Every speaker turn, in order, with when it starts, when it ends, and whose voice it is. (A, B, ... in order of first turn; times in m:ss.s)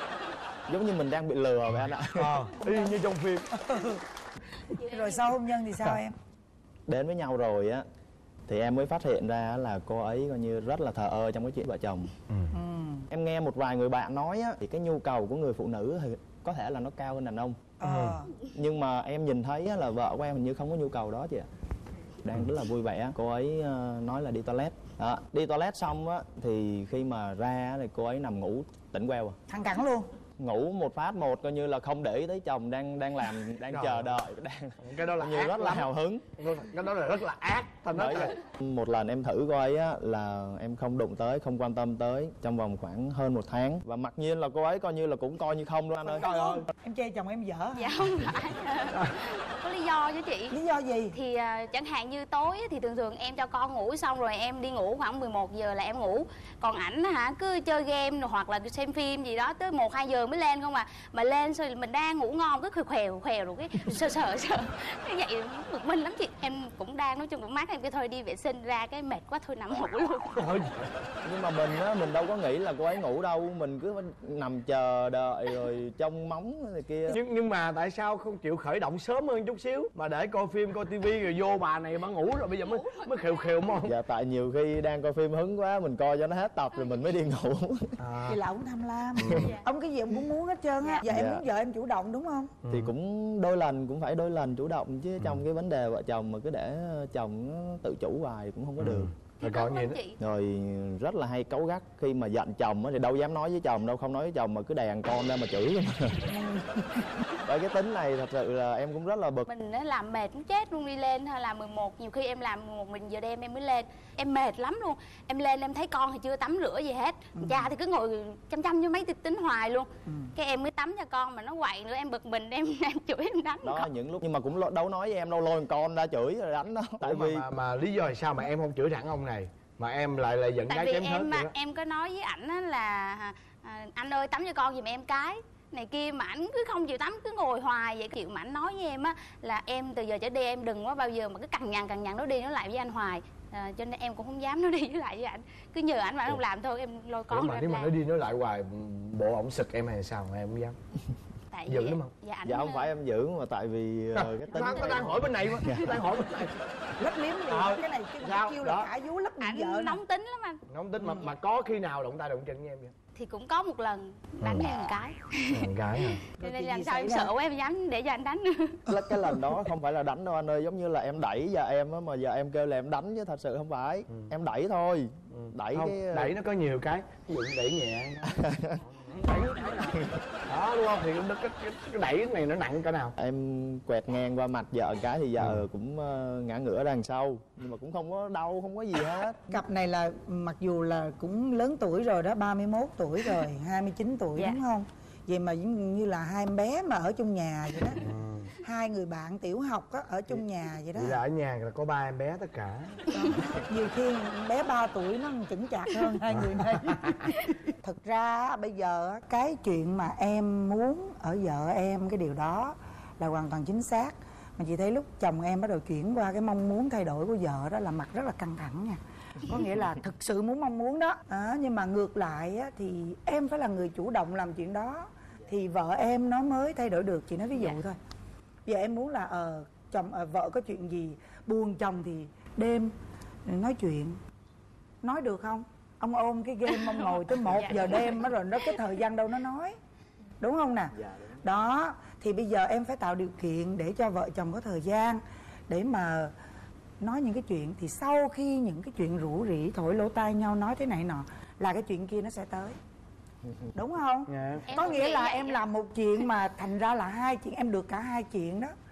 0:00.7-0:02.4 A
0:02.2-0:03.6 B
0:03.6-0:04.0 C
0:04.7-0:05.3 D
0:04.9-0:06.2 C
0:06.9-0:07.8 A
0:08.5-0:12.1 A
0:12.3-0:12.6 B
0:12.5-0:13.0 C
0:13.1-0:17.6 A
0:17.8-0:18.3 C
0:17.8-0:18.3 B
0:18.4-0:21.5 A
0:22.2-0:29.4 A
0:29.5-0:30.1 C
0:30.4-0:36.3 A
0:33.7-0:34.1 B
0:34.8-0:38.4 B
0:37.9-0:46.3 A
0:46.1-0:48.0 C
0:46.2-0:46.6 B
0:47.7-0:50.6 D
0:50.5-0:51.2 C
0:51.1-1:10.3 D
1:10.4-1:10.9 B
1:11.2-1:17.2 A
1:17.1-1:24.0 B
1:22.6-1:23.3 D
1:23.8-1:28.0 A
1:28.0-1:28.4 B
1:28.3-1:32.5 C
1:29.2-1:29.5 B
1:31.0-1:31.4 A
1:32.6-1:32.9 B
1:32.7-1:39.1 A
1:38.8-1:40.0 B
1:39.4-1:40.2 D
1:40.2-1:46.4 A
1:46.3-1:47.0 C
1:47.4-1:49.5 A
1:49.5-2:03.9 D
1:57.4-1:57.7 C
2:00.1-2:00.3 C
2:03.6-2:07.5 A
2:07.0-2:11.5 B
2:10.7-2:27.9 D
2:27.3-2:30.8 B
2:31.5-2:32.9 D
2:31.7-2:32.1 B
2:32.4-2:36.0 A
2:34.2-2:36.6 B
2:37.0-2:40.0 C
2:37.5-2:38.9 B
2:39.4-2:40.6 D
2:40.7-2:42.9 B
2:41.0-2:41.3 C
2:43.2-2:45.7 D
2:44.4-2:44.8 B
2:45.5-2:46.2 B
2:46.3-2:48.8 D
2:46.4-2:47.3 C
2:48.9-2:56.3 A
2:55.3-3:03.2 B
2:58.4-2:58.8 A
3:03.2-3:09.6 A
3:09.5-3:18.0 C
3:14.4-3:14.6 D
3:18.0-3:18.5 B
3:18.6-3:21.2 C
3:20.9-3:23.0 B
3:23.1-3:48.0 C
3:26.3-3:27.3 B
3:48.7-3:52.9 C
3:53.5-3:54.2 C
3:55.0-3:59.8 C
3:57.5-3:58.1 D
4:00.4-4:06.3 C
4:01.0-4:01.4 A
4:07.0-4:12.8 C
4:13.8-4:18.7 C
4:14.3-4:14.7 B
4:14.7-4:15.6 D